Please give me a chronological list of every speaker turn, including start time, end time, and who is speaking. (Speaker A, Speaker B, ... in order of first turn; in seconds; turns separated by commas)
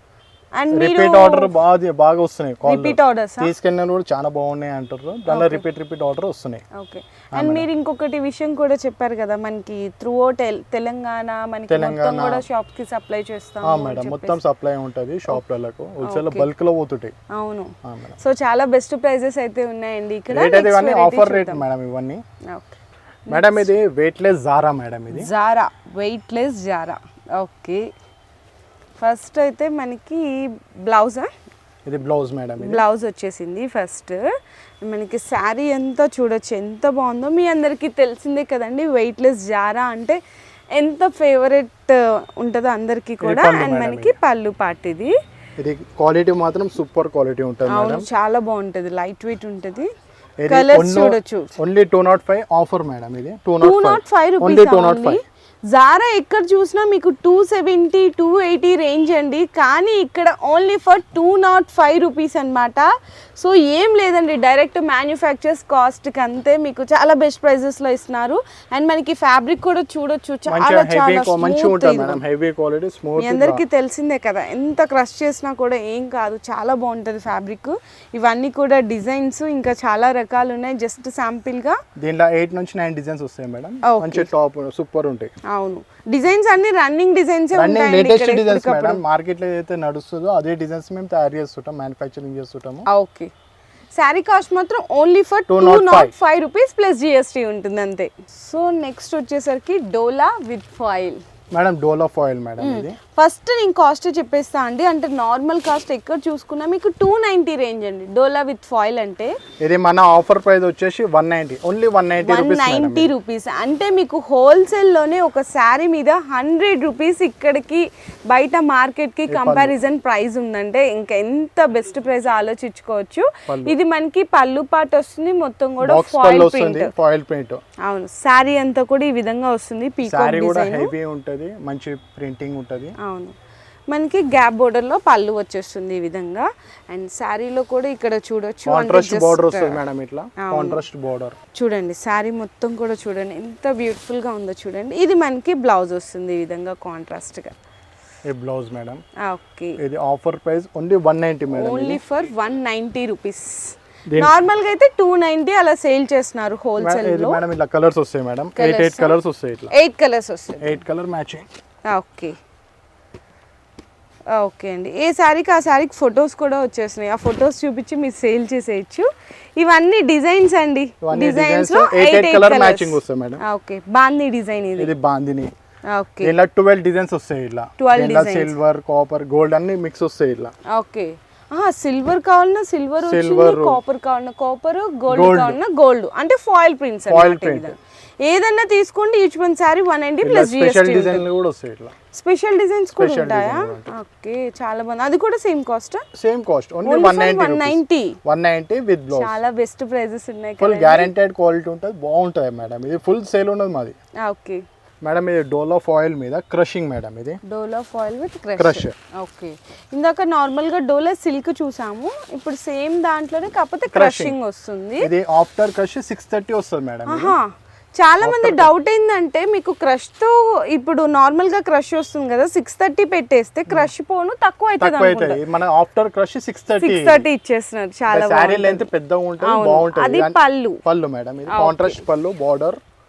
Speaker A: 0.6-1.5, Speaker B: 0.7-6.6, Speaker A: 2.6-3.5, Speaker A: 5.3-5.6, Speaker A: 6.7-14.4, Speaker B: 7.3-7.7, Speaker B: 11.7-12.4, Speaker B: 13.6-17.1, Speaker A: 16.0-16.5, Speaker A: 17.3-21.6, Speaker B: 17.8-18.2, Speaker B: 20.3-22.2, Speaker A: 22.5-23.7, Speaker B: 23.3-25.3, Speaker A: 25.1-27.9, Speaker A: 29.0-31.3, Speaker B: 31.8-32.8, Speaker A: 32.6-34.2, Speaker A: 34.8-40.2, Speaker A: 40.7-45.1, Speaker B: 43.2-44.1, Speaker B: 45.6-48.0, Speaker A: 47.7-49.9, Speaker B: 50.4-55.2, Speaker A: 50.5-51.5, Speaker A: 53.6-72.2, Speaker B: 70.5-73.6, Speaker A: 73.2-81.8, Speaker B: 82.0-85.3, Speaker A: 83.8-84.3, Speaker A: 85.5-89.0, Speaker B: 87.5-92.8, Speaker A: 92.9-93.3, Speaker A: 93.9-101.2, Speaker B: 95.5-96.1, Speaker B: 101.5-103.0, Speaker A: 102.6-109.4, Speaker B: 109.6-113.1, Speaker A: 112.2-126.9, Speaker B: 119.3-119.8, Speaker B: 123.5-123.8, Speaker B: 125.8-127.6, Speaker A: 127.8-130.9, Speaker B: 130.0-132.9, Speaker A: 133.0-133.3, Speaker A: 133.9-139.8, Speaker B: 138.7-141.4, Speaker A: 140.4-140.8, Speaker A: 141.5-147.6, Speaker B: 148.2-149.0, Speaker A: 149.2-149.8, Speaker B: 149.8-152.0, Speaker A: 151.5-157.4, Speaker B: 154.1-154.3, Speaker B: 156.8-159.7, Speaker A: 158.6-159.1, Speaker A: 159.7-160.8, Speaker B: 160.6-161.4, Speaker A: 161.9-162.4, Speaker A: 164.3-174.9, Speaker B: 171.0-173.4, Speaker B: 174.8-175.5, Speaker A: 175.9-176.3, Speaker B: 176.2-180.5, Speaker A: 177.8-178.5, Speaker A: 180.7-191.2, Speaker B: 183.0-183.8, Speaker B: 185.1-185.6, Speaker B: 187.1-187.7, Speaker B: 190.2-191.9, Speaker A: 192.1-196.0, Speaker B: 193.0-193.9, Speaker B: 196.1-199.3, Speaker A: 196.8-198.2, Speaker A: 199.1-201.1, Speaker B: 200.6-203.9, Speaker A: 204.2-204.6, Speaker B: 205.0-207.4, Speaker A: 207.4-215.1, Speaker B: 208.6-208.9, Speaker B: 213.9-214.3, Speaker B: 215.0-217.3, Speaker A: 217.1-225.4, Speaker B: 218.2-218.7, Speaker B: 224.8-227.2, Speaker A: 226.8-228.9, Speaker B: 228.1-232.8, Speaker A: 229.4-230.8, Speaker A: 231.5-232.0